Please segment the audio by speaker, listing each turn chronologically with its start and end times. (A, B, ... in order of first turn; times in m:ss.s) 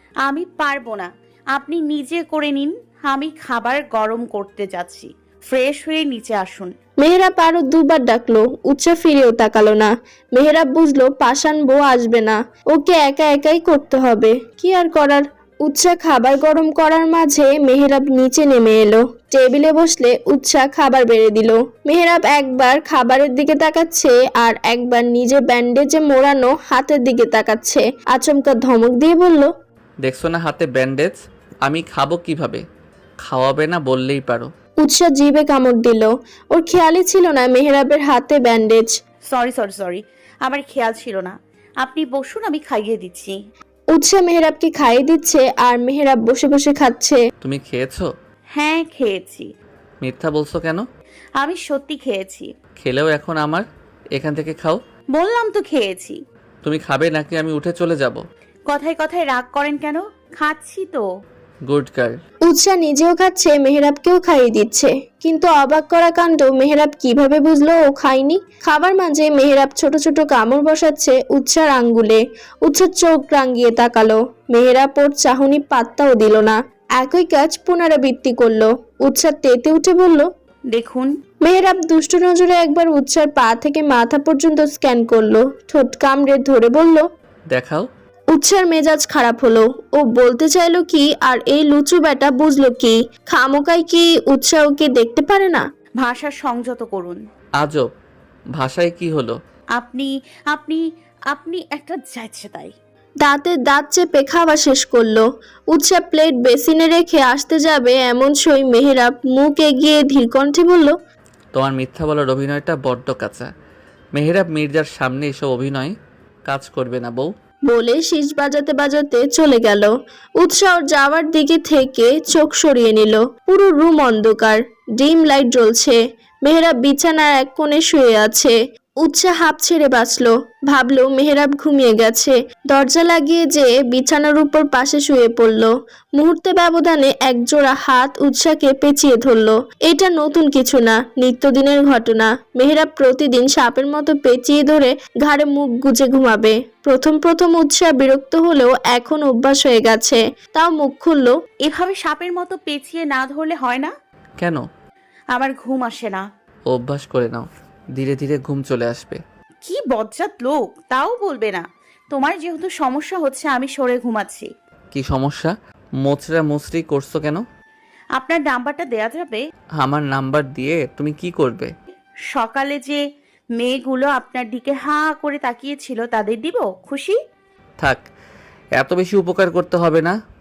0:00.3-0:06.7 A
0:07.0-0:29.5 B
0:30.0-0:32.6 C
0:33.2-0:34.5 C
0:34.8-0:39.0 B
0:39.3-0:43.3 A
0:43.9-0:47.2 B
0:47.4-0:48.1 C
0:48.6-0:49.5 A
0:50.0-0:50.8 C
0:51.4-0:52.5 A
0:52.8-0:54.8 C
0:55.1-0:56.2 A
0:56.6-0:58.2 C
0:58.7-1:01.0 A
1:01.7-1:02.2 C
1:02.5-1:20.3 B
1:20.7-1:21.1 A
1:21.4-1:27.0 B
1:27.5-1:27.9 C
1:28.3-1:35.6 B
1:36.0-1:37.2 A
1:37.6-1:37.9 C
1:38.6-1:39.4 C
1:39.8-1:42.7 A
1:43.2-1:51.0 B
1:51.5-1:53.5 C
1:54.2-1:56.0 C
1:56.5-1:57.3 C
1:57.7-2:31.4 B
2:31.6-2:33.9 A
2:34.4-2:34.6 C
2:35.3-2:36.3 A
2:36.7-2:39.2 C
2:39.7-2:44.5 A
2:44.9-2:47.4 C
2:48.2-2:49.4 A
2:49.8-2:51.7 C
2:52.3-2:53.0 A
2:53.6-2:57.2 A
2:57.8-2:58.0 C
2:58.8-3:00.2 C